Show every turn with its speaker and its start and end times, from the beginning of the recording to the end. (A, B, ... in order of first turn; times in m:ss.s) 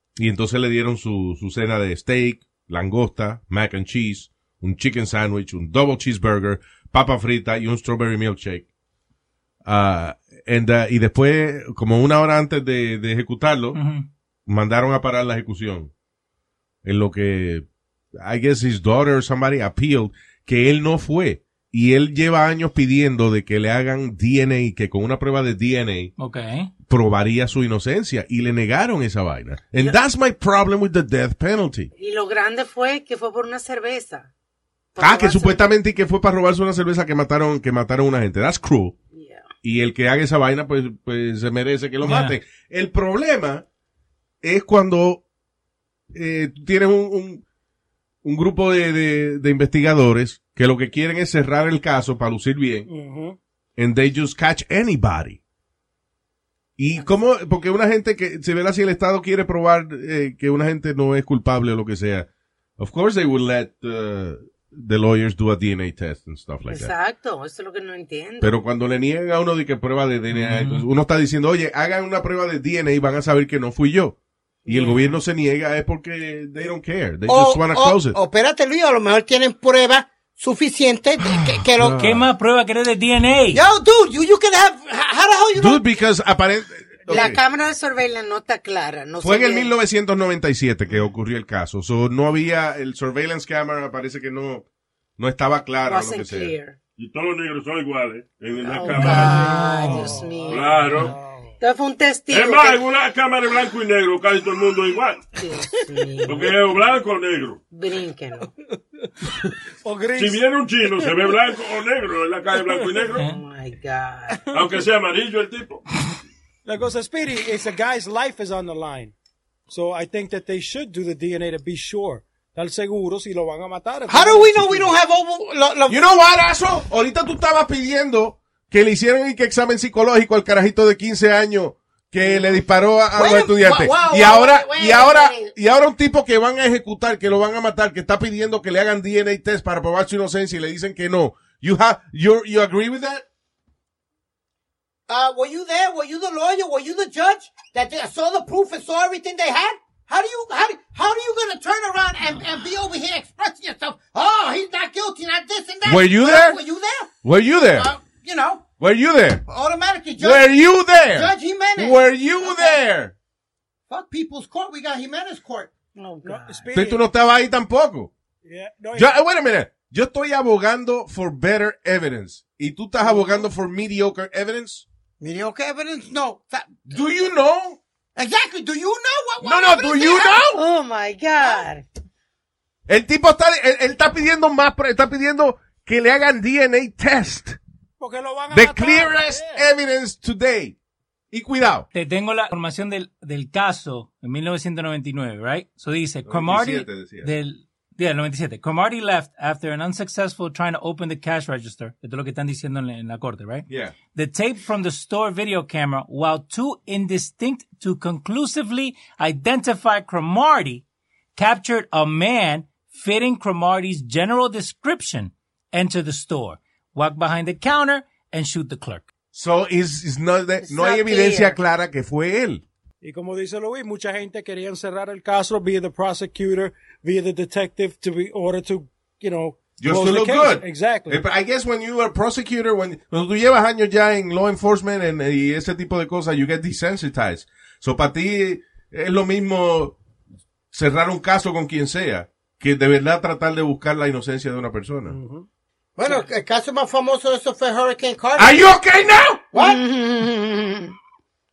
0:00.2-0:08.7 A
0:09.6-0:13.8 A
0:13.7-0:14.1 B
0:14.5-0:15.9 A
0:16.8-0:17.7 A
0:18.2-0:26.1 A
0:26.2-0:26.7 B
0:26.8-0:31.9 A
0:32.0-0:34.3 C
0:35.0-0:35.6 C
0:35.0-0:39.0 A
0:39.1-0:39.5 C
0:39.6-0:43.6 A
0:42.0-0:42.4 B
0:44.4-0:45.2 A
0:46.1-0:47.4 A
0:48.2-0:52.9 A
0:52.9-0:53.4 D
0:53.8-0:55.4 A
0:56.8-1:06.9 A
1:06.7-1:08.6 C
1:08.4-1:18.2 A
1:10.3-1:10.9 B
1:14.7-1:15.1 C
1:17.3-1:22.0 E
1:21.2-1:22.3 A
1:22.0-1:23.6 B
1:23.5-1:25.9 E
1:25.6-1:27.4 A
1:27.1-1:29.7 C
1:29.2-1:34.7 A
1:35.2-1:36.5 A
1:35.9-1:36.8 C
1:37.0-1:39.6 F
1:38.7-1:41.1 C
1:38.9-1:41.5 D
1:40.5-1:41.1 F
1:41.6-1:42.8 C
1:42.3-1:45.2 F
1:45.4-1:46.6 C
1:46.3-1:47.6 F
1:47.7-1:48.5 C
1:49.8-1:50.4 D
1:50.2-1:53.2 F
1:53.2-1:54.4 C
1:54.5-1:55.8 F
1:56.7-1:59.1 D
1:59.7-2:05.0 D
2:04.1-2:06.0 E
2:05.9-2:23.2 A
2:13.2-2:15.5 E
2:25.1-2:37.2 E
2:35.8-2:36.6 A
2:37.2-2:37.9 A
2:37.7-2:38.7 E
2:38.8-2:39.4 A
2:39.5-2:40.5 E
2:40.2-2:43.2 A
2:41.1-2:42.8 E
2:43.9-2:45.7 E
2:46.0-2:46.7 C
2:46.2-2:47.0 D
2:46.7-2:48.1 A
2:48.4-2:49.1 D
2:49.0-2:54.8 A
2:55.2-2:57.0 E
2:56.9-2:57.8 A
2:58.2-3:00.5 E
2:59.4-3:00.6 A
3:00.5-3:01.9 C
3:02.9-3:07.6 A
3:08.0-3:09.7 D
3:08.5-3:10.8 A
3:11.3-3:11.9 A
3:11.9-3:30.8 B
3:16.2-3:17.3 A
3:23.7-3:24.0 A
3:31.4-3:39.1 B
3:39.3-3:42.6 A
3:40.6-3:41.6 C
3:43.0-3:51.2 D
3:49.8-4:00.0 A
4:00.7-4:05.2 A
4:05.1-4:05.5 D
4:06.0-4:08.6 E
4:08.4-4:09.5 A
4:09.5-4:09.8 E
4:09.6-4:10.9 C